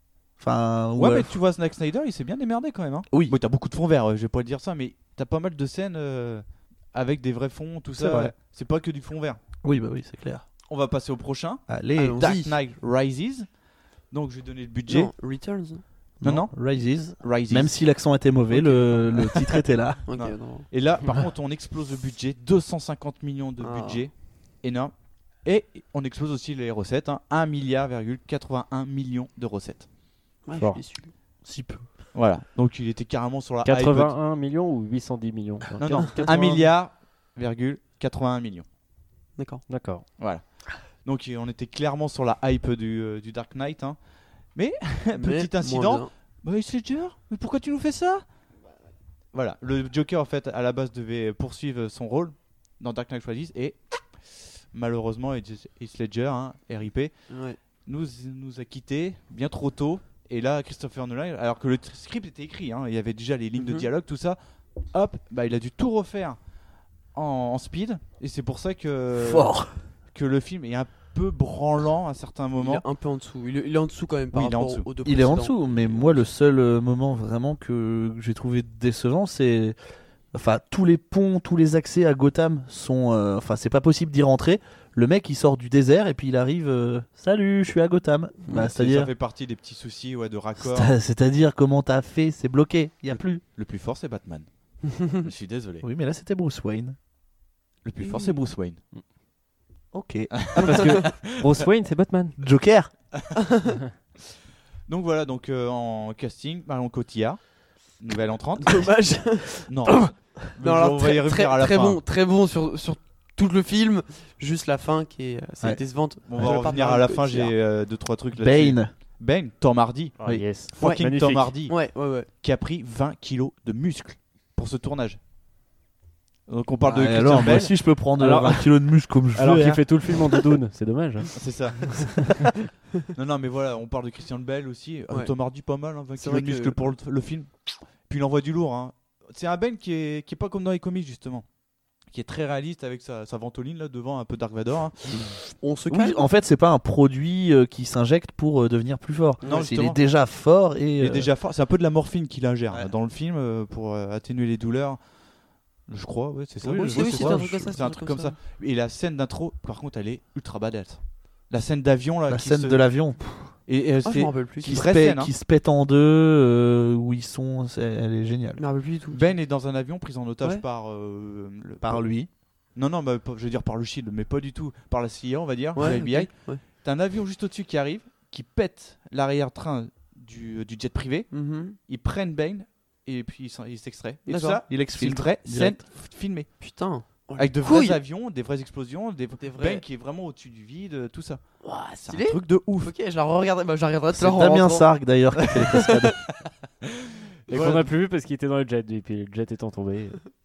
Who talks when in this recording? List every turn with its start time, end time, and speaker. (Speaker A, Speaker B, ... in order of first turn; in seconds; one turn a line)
Speaker A: 0.4-1.3
Speaker B: 1.0-9.4
Speaker A: 3.1-3.3
Speaker A: 7.9-8.3
Speaker A: 9.6-10.4
Speaker B: 10.7-13.5
Speaker A: 11.7-12.3
Speaker C: 12.0-12.6
Speaker B: 14.1-15.1
Speaker C: 14.9-15.8
Speaker A: 16.2-20.0
Speaker B: 16.2-17.9
Speaker B: 18.5-19.5
Speaker C: 20.1-20.7
Speaker B: 20.1-29.9
Speaker C: 23.6-24.0
Speaker C: 30.4-31.1
Speaker D: 30.6-30.8
Speaker A: 31.4-31.9
Speaker B: 32.1-34.1
Speaker D: 33.6-36.6
Speaker B: 35.8-38.6
Speaker A: 36.2-36.6
Speaker C: 39.4-39.6
Speaker D: 39.7-40.0
Speaker B: 40.2-44.0
Speaker B: 44.5-48.2
Speaker C: 45.2-46.1
Speaker B: 49.3-66.4
Speaker C: 57.3-57.6
Speaker C: 63.6-63.9
Speaker B: 67.1-69.6
Speaker A: 69.1-69.8
Speaker B: 70.1-72.8
Speaker C: 72.6-76.2
Speaker B: 74.3-74.9
Speaker A: 75.0-79.8
Speaker A: 80.3-89.1
Speaker B: 88.5-90.9
Speaker A: 90.6-93.4
Speaker B: 93.1-95.8
Speaker A: 95.8-97.0
Speaker B: 97.8-98.8
Speaker C: 98.0-98.4
Speaker A: 99.9-100.9
Speaker B: 100.5-101.5
Speaker D: 100.6-102.4
Speaker A: 102.4-102.9
Speaker B: 104.9-112.0
Speaker C: 108.6-117.5
Speaker B: 116.2-120.2
Speaker A: 118.3-118.9
Speaker D: 120.2-121.5
Speaker B: 120.7-125.2
Speaker C: 121.7-122.3
Speaker B: 126.5-127.7
Speaker C: 126.8-127.2
Speaker A: 126.9-129.9
Speaker D: 128.2-131.4
Speaker B: 131.3-132.3
Speaker B: 133.1-141.5
Speaker C: 136.1-136.9
Speaker B: 142.0-145.3
Speaker C: 145.6-146.2
Speaker A: 145.9-151.3
Speaker C: 149.4-149.8
Speaker B: 149.4-150.0
Speaker B: 151.0-155.0
Speaker B: 155.9-165.3
Speaker A: 156.6-157.8
Speaker C: 156.7-158.4
Speaker A: 162.3-163.6
Speaker C: 164.0-164.8
Speaker A: 164.6-168.6
Speaker C: 168.6-169.4
Speaker B: 169.1-186.6
Speaker A: 171.8-172.3
Speaker C: 175.7-176.6
Speaker C: 181.3-181.8
Speaker C: 184.2-184.6
Speaker A: 184.7-185.8
Speaker C: 186.6-188.0
Speaker B: 187.4-192.9
Speaker C: 189.4-189.8
Speaker C: 191.6-196.1
Speaker A: 194.1-196.2
Speaker B: 197.5-197.9
Speaker D: 197.5-200.2